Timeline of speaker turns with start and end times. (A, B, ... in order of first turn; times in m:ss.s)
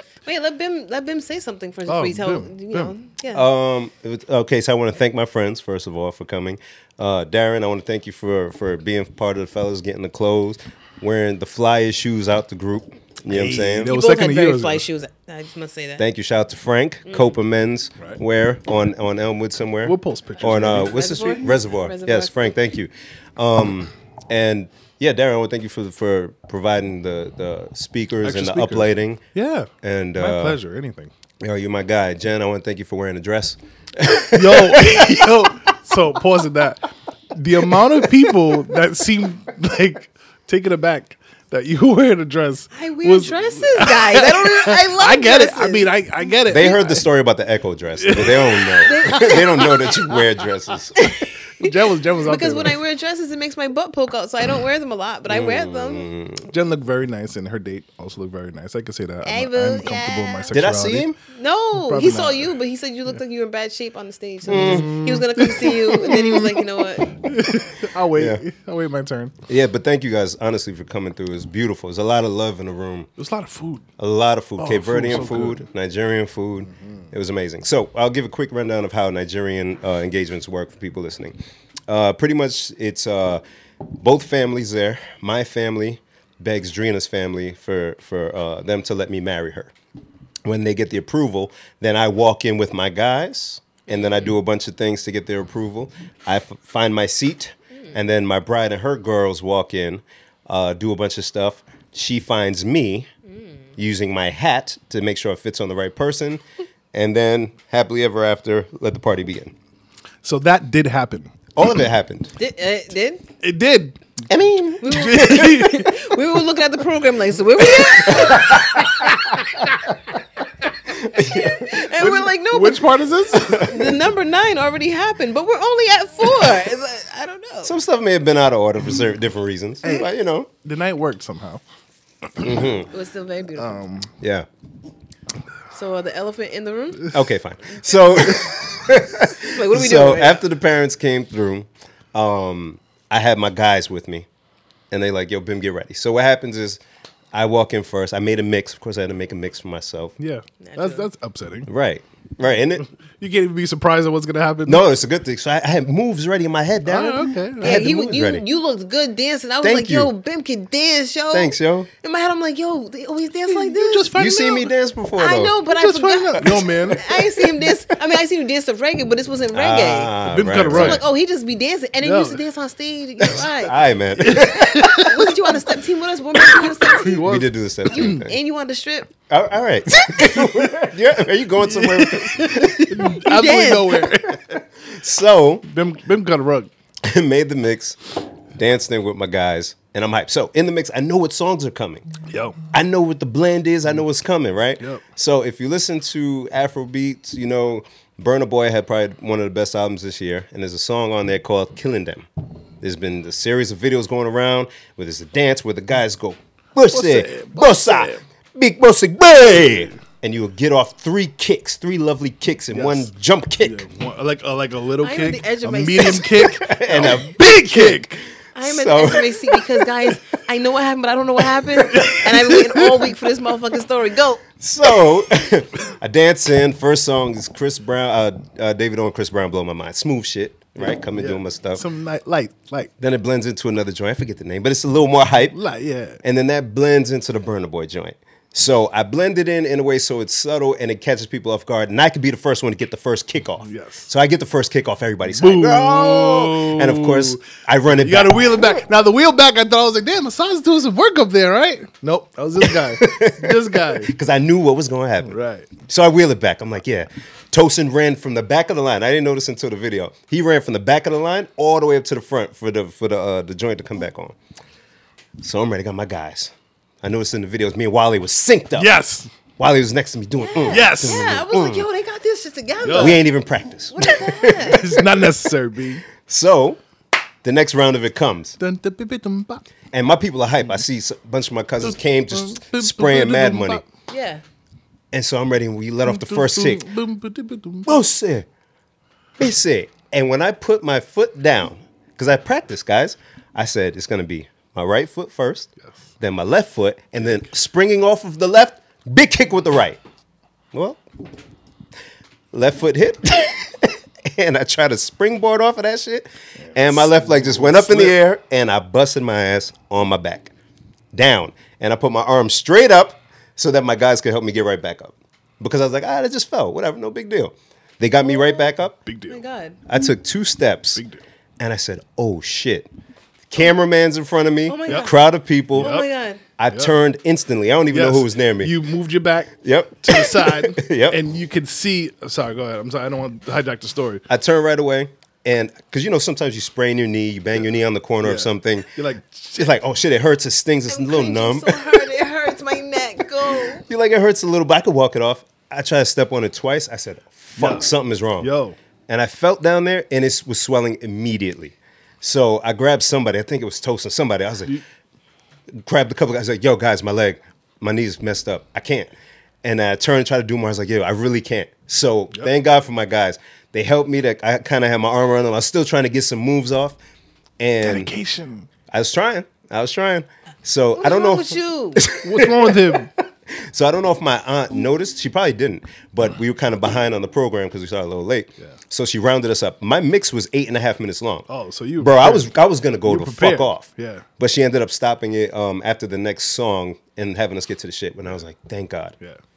0:00.2-0:03.4 A
0:01.9-0:02.9 B
0:03.3-0:13.9 C
0:13.3-0:14.8 B
0:13.9-0:16.0 A
0:16.0-0:29.2 C
0:19.8-0:21.0 B
0:20.8-0:22.5 A
0:28.2-0:31.1 B
0:29.8-0:30.6 C
0:31.4-0:35.2 C
0:34.3-0:47.0 B
0:42.7-0:45.9 A
0:46.5-0:51.0 C
0:48.0-0:50.2 B
0:48.9-0:49.8 A
0:51.0-0:56.1 A
0:51.6-0:52.8 B
0:55.3-0:56.5 C
0:56.5-1:01.1 B
0:59.2-1:00.5 A
1:00.5-1:01.2 C
1:01.3-1:07.1 A
1:01.8-1:02.5 B
1:04.4-1:09.4 B
1:04.5-1:04.9 C
1:08.1-1:08.4 C
1:09.5-1:13.1 C
1:13.2-1:13.9 B
1:14.0-1:21.4 C
1:14.6-1:15.7 B
1:21.9-1:29.7 C
1:30.4-1:43.1 C
1:33.9-1:34.3 A
1:43.8-1:49.5 C
1:50.2-1:51.3 B
1:51.6-1:52.3 C
1:52.4-1:53.2 A
1:53.4-1:54.0 B
1:54.3-1:55.4 C
1:54.8-1:58.6 A
1:54.8-1:56.0 B
1:58.0-2:00.0 C
2:00.9-2:01.7 C
2:01.1-2:07.7 A
2:01.9-2:04.0 B
2:07.6-2:10.5 C
2:09.8-2:10.1 B
2:10.6-2:11.6 B
2:12.4-2:12.9 C
2:12.9-2:13.8 A
2:13.6-2:14.1 B
2:14.2-2:14.5 C
2:15.7-2:17.2 A
2:17.1-2:24.3 C
2:19.5-2:20.4 A
2:24.9-2:26.8 C
2:27.3-2:30.2 C
2:30.2-2:31.7 B
2:30.6-2:31.1 A
2:31.7-2:32.9 C
2:33.2-2:34.8 B
2:34.7-2:38.4 C
2:36.8-2:37.9 B
2:37.6-2:44.2 A
2:39.6-2:40.1 C
2:41.3-2:41.9 C
2:43.5-2:44.7 B
2:44.2-2:45.6 C
2:45.2-2:50.1 A
2:45.7-2:47.0 B
2:46.4-2:47.0 C
2:49.5-2:51.0 C
2:50.3-2:51.1 B
2:50.7-2:53.8 A
2:52.0-2:52.4 B
2:53.3-2:55.1 C
2:54.2-2:55.7 B
2:54.8-2:57.3 A
2:56.4-2:58.2 B
2:57.2-2:58.3 C
2:57.9-2:59.1 A
2:59.3-3:03.1 C
3:01.6-3:04.6 B
3:03.0-3:04.1 A
3:04.9-3:05.7 C
3:05.6-3:06.7 B
3:07.0-3:08.0 C
3:08.6-3:12.1 C
3:12.3-3:12.6 B
3:12.7-3:22.3 C
3:22.8-3:33.9 C
3:26.9-3:28.2 B
3:32.7-3:33.1 B
3:33.6-3:38.2 B
3:35.0-3:36.6 A
3:36.4-3:38.0 C
3:38.6-3:44.4 A
3:38.6-3:39.9 C
3:41.9-3:43.2 B
3:44.6-3:51.8 C
3:50.8-3:52.9 B
3:53.0-3:55.6 C
3:55.5-3:56.2 B
3:56.2-4:08.5 C
4:03.6-4:04.1 B
4:05.3-4:14.2 B
4:12.7-4:24.4 C
4:15.2-4:15.7 B
4:25.4-4:29.0 C
4:28.8-4:29.3 B
4:29.6-4:31.8 C
4:30.4-4:33.3 A
4:30.7-4:31.4 B
4:32.8-4:33.2 B
4:32.9-4:35.2 C
4:33.9-4:34.9 A
4:34.6-4:36.0 B
4:36.2-4:36.8 C
4:37.4-4:38.6 C
4:38.6-4:39.6 B
4:39.9-4:43.8 C
4:41.8-4:43.8 B
4:44.1-4:44.4 A
4:45.1-4:46.9 C
4:46.0-4:48.0 B
4:47.9-4:48.5 C
4:49.4-4:55.7 C
4:56.2-5:00.0 C
5:00.7-5:01.0 C
5:02.5-5:10.5 C
5:06.6-5:08.2 B
5:11.1-5:19.0 C
5:18.2-5:18.7 A
5:19.0-5:19.4 B
5:19.3-5:19.8 A
5:19.9-5:21.0 C
5:21.0-5:21.2 B
5:21.6-5:22.9 C
5:23.5-5:25.9 C
5:24.7-5:25.2 A
5:25.7-5:26.4 A
5:25.8-5:26.1 B
5:26.6-5:28.7 C
5:27.9-5:34.2 B
5:29.6-5:31.2 C
5:34.3-5:38.9 C
5:38.2-5:39.8 B
5:39.6-5:42.1 C
5:40.9-5:43.8 A
5:43.8-5:48.5 C
5:47.6-5:47.9 B
5:48.4-5:48.8 B
5:49.1-5:54.8 C
5:55.8-5:59.1 C
5:59.6-6:07.0 C
6:07.6-6:08.1 C
6:07.8-6:08.7 B
6:08.9-6:21.4 C
6:11.0-6:12.0 A
6:12.2-6:13.1 B
6:21.5-6:22.5 B
6:22.0-6:29.2 C
6:23.0-6:24.3 B